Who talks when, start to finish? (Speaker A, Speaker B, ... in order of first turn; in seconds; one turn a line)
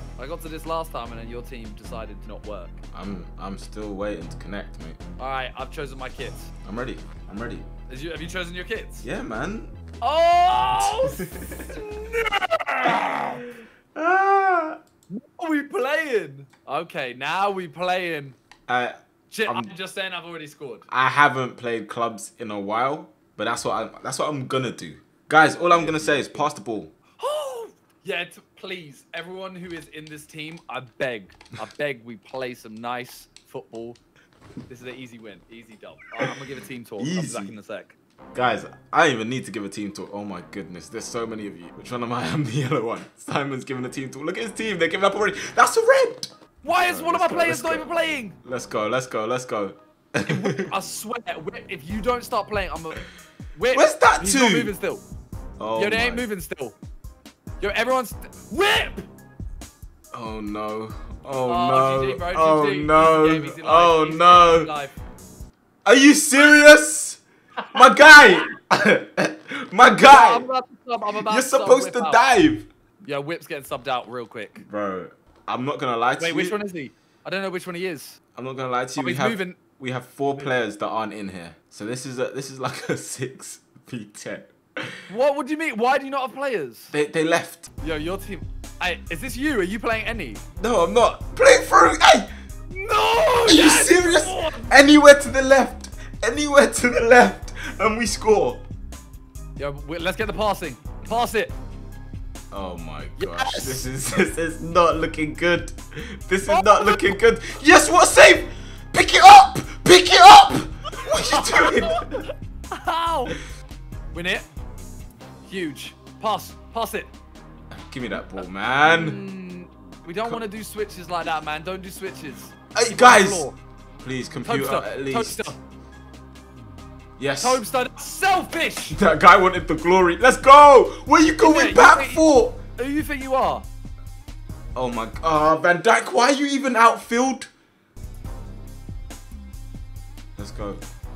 Speaker A: 0.2-2.8
Speaker B: 2.9-5.0
Speaker A: 5.2-6.5
Speaker B: 6.7-7.7
Speaker A: 7.9-9.1
Speaker B: 9.0-9.7
Speaker A: 10.0-13.4
Speaker B: 10.8-11.8
Speaker B: 13.9-14.8
Speaker A: 15.1-18.4
Speaker B: 18.7-19.7
Speaker A: 19.3-20.9
Speaker B: 20.9-26.9
Speaker A: 25.6-26.5
Speaker A: 27.2-34.0
Speaker A: 34.7-38.0
Speaker B: 37.0-37.5
Speaker B: 38.4-50.7
Speaker A: 46.6-48.4
Speaker A: 50.3-55.0
Speaker B: 53.7-54.7
Speaker B: 55.6-56.3
Speaker A: 55.8-56.8
Speaker A: 57.6-59.1
Speaker B: 60.1-64.7
Speaker A: 61.5-65.0
Speaker B: 65.8-67.2
Speaker B: 67.7-70.5
Speaker A: 70.0-72.2
Speaker B: 71.2-72.7
Speaker A: 73.0-74.6
Speaker B: 74.6-76.6
Speaker A: 76.2-78.2
Speaker B: 78.4-85.1
Speaker A: 79.0-79.6
Speaker A: 85.1-86.9
Speaker B: 86.9-87.7
Speaker A: 87.8-90.4
Speaker B: 90.6-92.3
Speaker A: 92.7-94.7
Speaker B: 93.5-98.6
Speaker A: 99.6-101.5
Speaker B: 102.5-112.2
Speaker A: 103.2-103.9
Speaker A: 106.5-107.2
Speaker A: 111.1-113.4
Speaker A: 114.1-114.5
Speaker A: 115.5-117.1
Speaker B: 117.7-119.2
Speaker A: 118.8-123.6
Speaker B: 122.8-123.5
Speaker B: 124.0-125.6
Speaker A: 124.4-125.6
Speaker B: 127.2-127.6
Speaker A: 127.4-129.0
Speaker B: 128.9-132.6
Speaker A: 131.4-133.7
Speaker B: 134.8-137.5
Speaker B: 140.4-140.8